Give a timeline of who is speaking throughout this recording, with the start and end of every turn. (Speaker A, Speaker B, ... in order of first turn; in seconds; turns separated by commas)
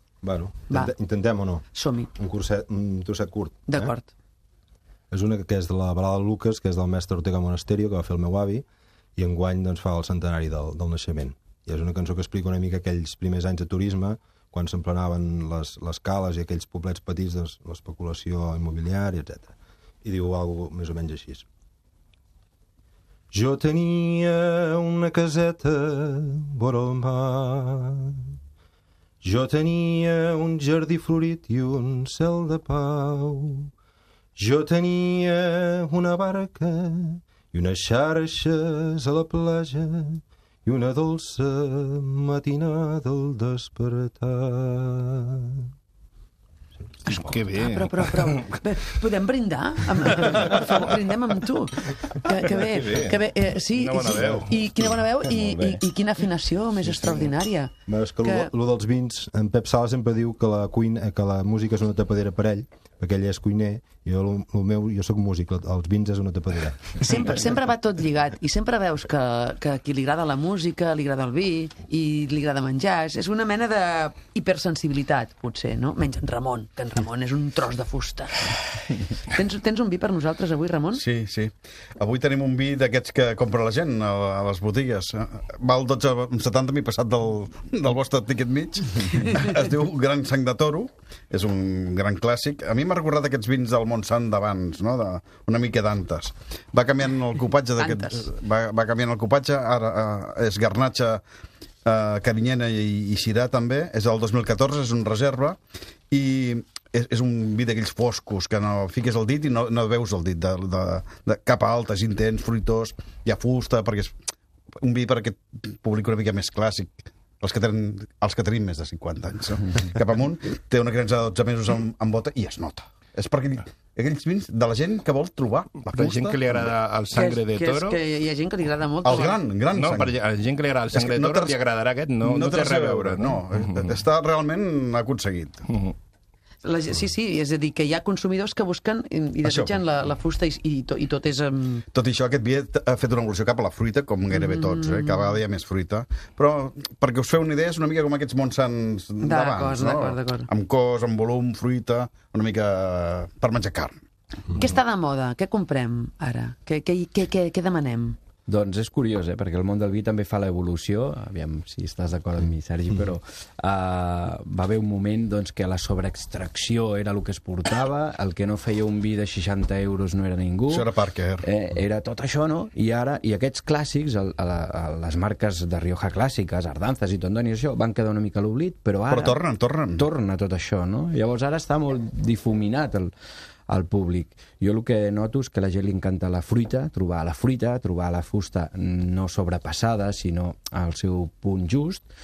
Speaker A: 0.2-1.6, Speaker B: 1.7-2.1, Speaker A: 2.1-3.9, Speaker B: 3.7-4.1, Speaker A: 5.1-8.6, Speaker A: 9.2-21.4, Speaker A: 23.3-28.3, Speaker A: 29.2-33.7, Speaker A: 34.4-45.7, Speaker B: 47.0-57.7, Speaker C: 47.1-48.5, Speaker C: 52.5-54.6, Speaker D: 55.2-55.8, Speaker A: 57.9-67.1, Speaker B: 58.2-58.5, Speaker B: 67.0-81.0, Speaker E: 80.9-101.2, Speaker B: 97.8-98.3, Speaker E: 101.8-105.6, Speaker E: 106.1-114.1, Speaker E: 114.8-126.7, Speaker C: 125.9-128.0, Speaker B: 127.1-129.4, Speaker E: 129.0-130.1, Speaker C: 129.7-133.9, Speaker E: 130.9-131.6, Speaker E: 132.2-135.6, Speaker C: 135.7-135.9, Speaker B: 136.6-141.8, Speaker E: 139.4-139.8, Speaker E: 141.9-154.0, Speaker B: 144.3-145.3, Speaker B: 149.2-150.5, Speaker B: 154.6-158.2, Speaker D: 158.4-179.4, Speaker E: 170.7-171.4, Speaker E: 179.1-180.1, Speaker D: 179.9-183.1, Speaker D: 183.7-192.0